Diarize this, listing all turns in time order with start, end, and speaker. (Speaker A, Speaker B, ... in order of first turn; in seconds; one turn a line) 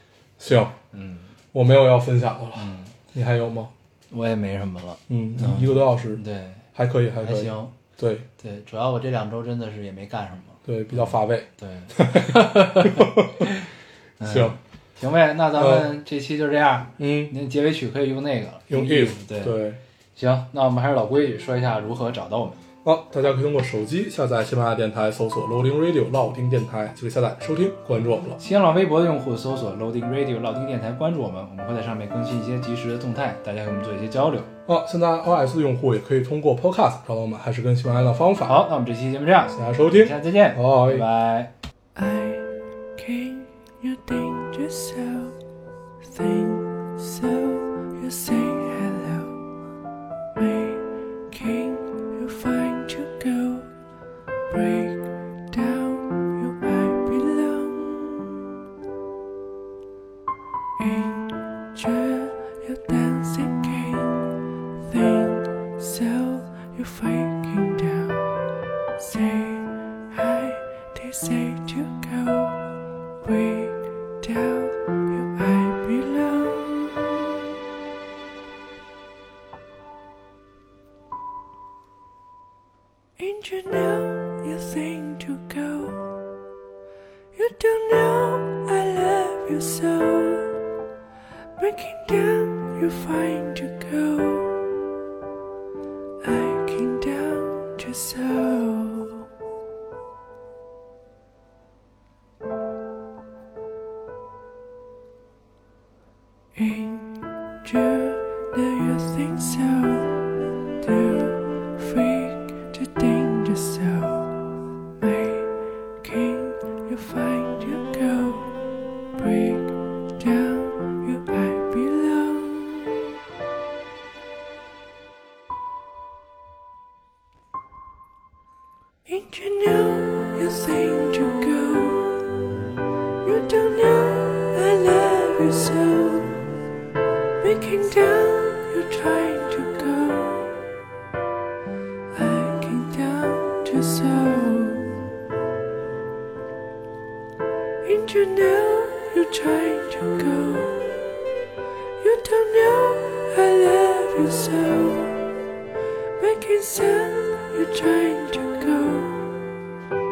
Speaker A: 0.4-0.8
Speaker B: 0.9-1.3
Speaker A: 1.5-3.7
Speaker B: 2.5-2.9
Speaker B: 4.1-6.6
Speaker A: 5.1-6.2
Speaker A: 6.7-8.2
Speaker B: 7.2-7.7
Speaker B: 8.4-13.7
Speaker A: 10.7-13.5
Speaker B: 14.2-19.6
Speaker A: 14.2-14.5
Speaker A: 15.6-15.9
Speaker A: 17.0-17.3
Speaker A: 18.7-19.8
Speaker B: 20.1-22.6
Speaker A: 22.8-28.4
Speaker B: 28.4-34.5
Speaker A: 34.6-38.6
Speaker B: 38.4-41.5
Speaker A: 39.5-41.0
Speaker C: 41.9-45.4
Speaker C: 46.0-49.4
Speaker C: 50.3-53.7
Speaker C: 54.5-58.5
Speaker C: 60.8-68.3
Speaker C: 69.0-77.0
Speaker C: 83.2-86.1
Speaker C: 87.3-90.6
Speaker C: 91.6-94.7
Speaker C: 96.2-99.3
Speaker C: 106.5-114.4
Speaker C: 115.0-118.6
Speaker C: 119.1-123.0
Speaker C: 129.1-132.4
Speaker C: 133.2-136.4
Speaker C: 137.4-140.7
Speaker C: 142.1-145.0
Speaker C: 147.8-151.2
Speaker C: 152.0-155.3
Speaker C: 156.2-159.6